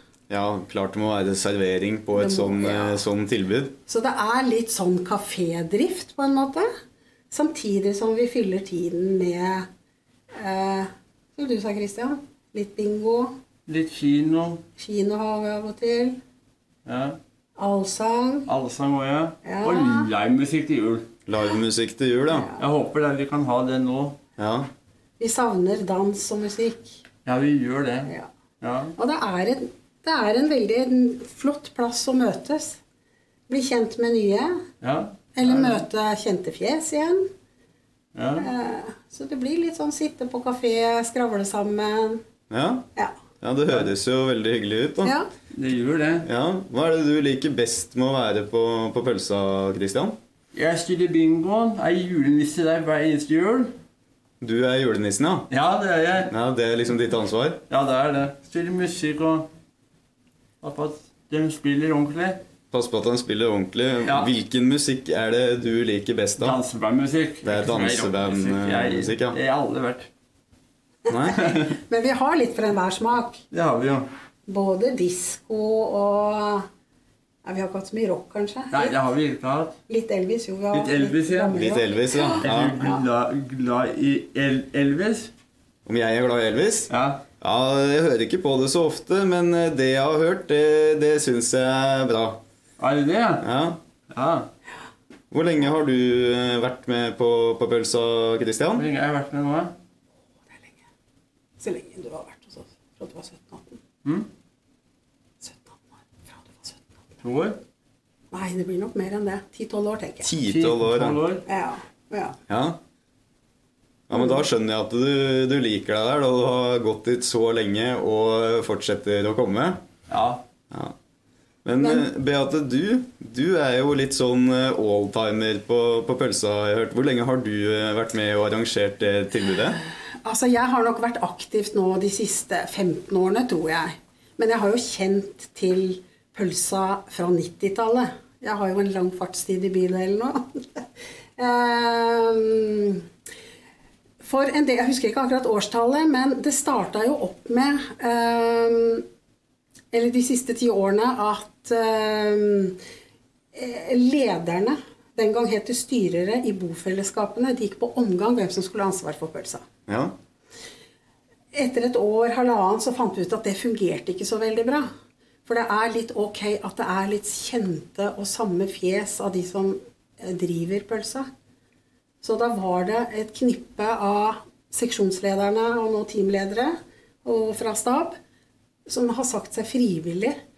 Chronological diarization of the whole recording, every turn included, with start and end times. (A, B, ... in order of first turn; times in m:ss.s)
0:00.3-0:03.8 A
0:02.1-0:03.0 B
0:03.9-0:06.7 B
0:07.3-0:09.7 B
0:10.4-0:13.4 B
0:13.7-0:14.6 C
0:14.8-0:16.2 B
0:16.8-0:17.2 C
0:17.6-0:18.5 B
0:18.5-0:21.1 C
0:19.4-0:20.1 B
0:21.3-0:22.5 A
0:22.3-0:22.6 B
0:22.6-0:24.2 C
0:24.4-0:24.7 A
0:25.2-0:27.0 B
0:27.2-0:28.9 C
0:29.0-0:32.8 B
0:33.5-0:34.6 B
0:34.8-0:35.8 C
0:35.3-0:37.2 B
0:38.1-0:38.5 C
0:38.4-0:42.2 B
0:42.5-0:42.9 A
0:43.4-0:45.1 A
0:45.0-0:45.3 B
0:45.5-0:46.3 C
0:46.2-0:50.2 A
0:50.5-0:53.7 C
0:54.4-0:55.5 A
0:55.5-0:56.3 C
0:56.3-0:57.6 A
0:57.7-0:59.5 C
1:00.6-1:02.4 C
1:02.7-1:06.6 A
1:04.0-1:04.3 C
1:06.4-1:10.1 C
1:07.4-1:09.4 A
1:11.1-1:11.7 A
1:11.1-1:13.4 B
1:13.5-1:14.1 C
1:14.4-1:16.6 B
1:17.4-1:19.0 B
1:18.7-1:19.8 C
1:19.9-1:23.0 B
1:20.7-1:21.6 C
1:21.5-1:22.9 A
1:22.4-1:25.3 C
1:25.8-1:32.4 A
1:26.9-1:27.2 C
1:32.8-1:33.4 C
1:33.4-1:33.8 A
1:34.1-1:34.5 C
1:35.3-1:38.8 A
1:38.8-1:39.7 C
1:41.6-1:43.8 B
1:45.4-1:46.8 B
1:47.2-1:47.6 C
1:48.3-1:50.3 B
1:50.2-1:51.2 A
1:50.5-1:51.4 C
1:51.4-1:52.4 B
1:52.5-1:52.8 A
1:54.1-1:59.8 A
2:00.1-2:00.4 C
2:01.6-2:09.8 A
2:01.8-2:02.1 B
2:10.2-2:23.0 B
2:24.2-2:29.0 B
2:29.9-2:32.8 B
2:33.5-2:39.6 B
2:39.9-2:40.1 A
2:41.5-2:44.9 B
2:45.4-2:51.2 B
2:52.2-2:58.2 B
2:58.8-3:00.4 B